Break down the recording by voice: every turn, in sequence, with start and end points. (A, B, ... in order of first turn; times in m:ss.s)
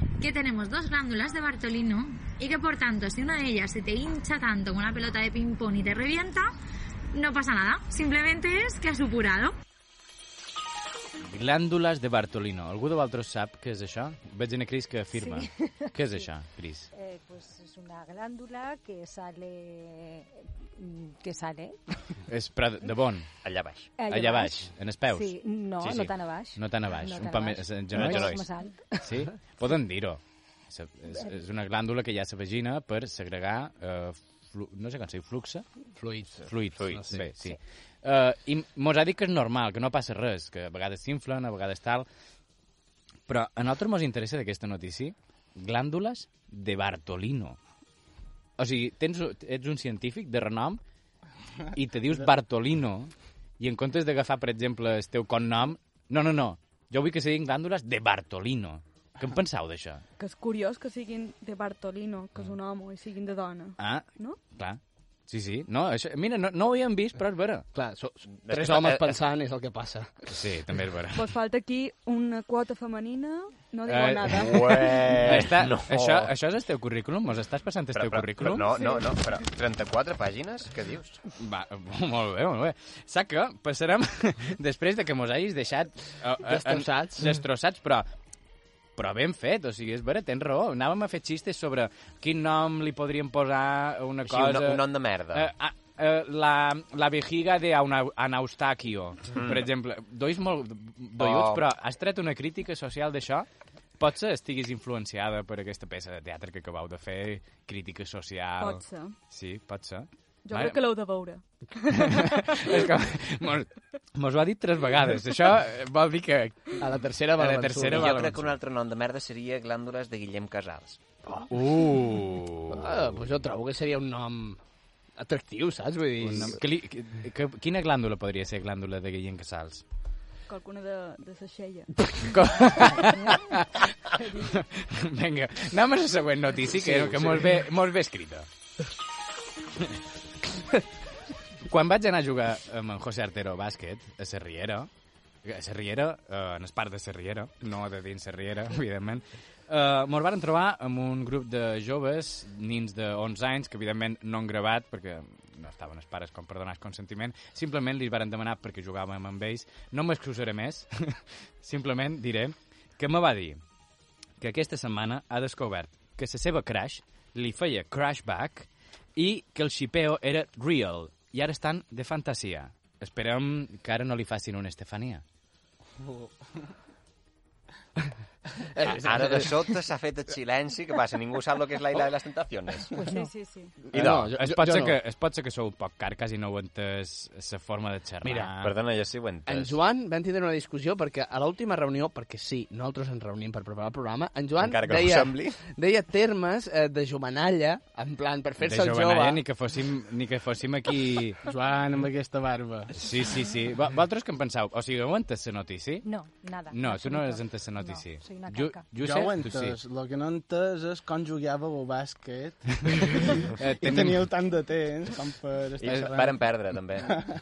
0:00.2-0:06.5 A
0:07.1-0:09.5 A
0:11.2-0:16.9 B
0:15.2-0:16.3 C
0:16.9-0:22.0 C
0:22.3-0:23.3 B
0:23.4-0:23.9 D
0:24.0-0:29.1 C
0:24.1-0:28.5 B
0:27.9-0:28.4 D
0:29.0-0:35.7 B
0:36.0-0:37.2 E
0:36.4-0:42.0 B
0:36.8-0:37.0 D
0:43.3-0:47.6 B
0:48.6-0:50.8 B
0:51.7-1:00.0 B
1:00.2-1:04.4 F
1:03.8-1:07.7 B
1:07.7-1:10.3 E
1:08.4-1:09.2 D
1:10.3-1:11.2 B
1:11.1-1:15.2 F
1:13.8-1:18.7 B
1:14.3-1:16.3 D
1:17.9-1:21.2 D
1:21.4-1:28.1 B
1:26.4-1:27.4 E
1:29.0-1:43.5 B
1:34.2-1:35.5 D
1:39.3-1:39.6 D
1:41.2-1:41.6 D
1:44.0-1:50.8 B
1:48.6-1:49.2 F
1:50.4-1:52.8 F
1:52.0-1:58.6 B
1:56.8-1:58.2 E
1:57.9-2:01.0 D
2:01.5-2:03.1 B
2:02.7-2:04.6 E
2:05.2-2:06.6 E
2:06.2-2:09.8 B
2:10.5-2:11.9 F
2:12.2-2:18.5 B
2:16.8-2:17.5 E
2:21.6-2:24.9 B
2:25.4-2:43.6 B
2:44.4-2:55.2 B
2:56.0-2:56.3 G
2:58.6-2:59.6 E
2:58.9-3:02.9 D
3:02.9-3:03.3 C
3:03.0-3:03.7 F
3:03.9-3:05.0 E
3:03.9-3:04.3 D
3:04.0-3:08.7 B
3:08.2-3:08.5 E
3:08.6-3:09.8 D
3:09.5-3:19.4 E
3:14.6-3:15.6 D
3:18.6-3:21.4 B
3:21.4-3:22.9 G
3:23.0-3:26.1 B
3:26.0-3:28.9 C
3:26.7-3:29.8 B
3:29.0-3:36.4 G
3:33.5-3:34.3 B
3:35.8-3:37.1 D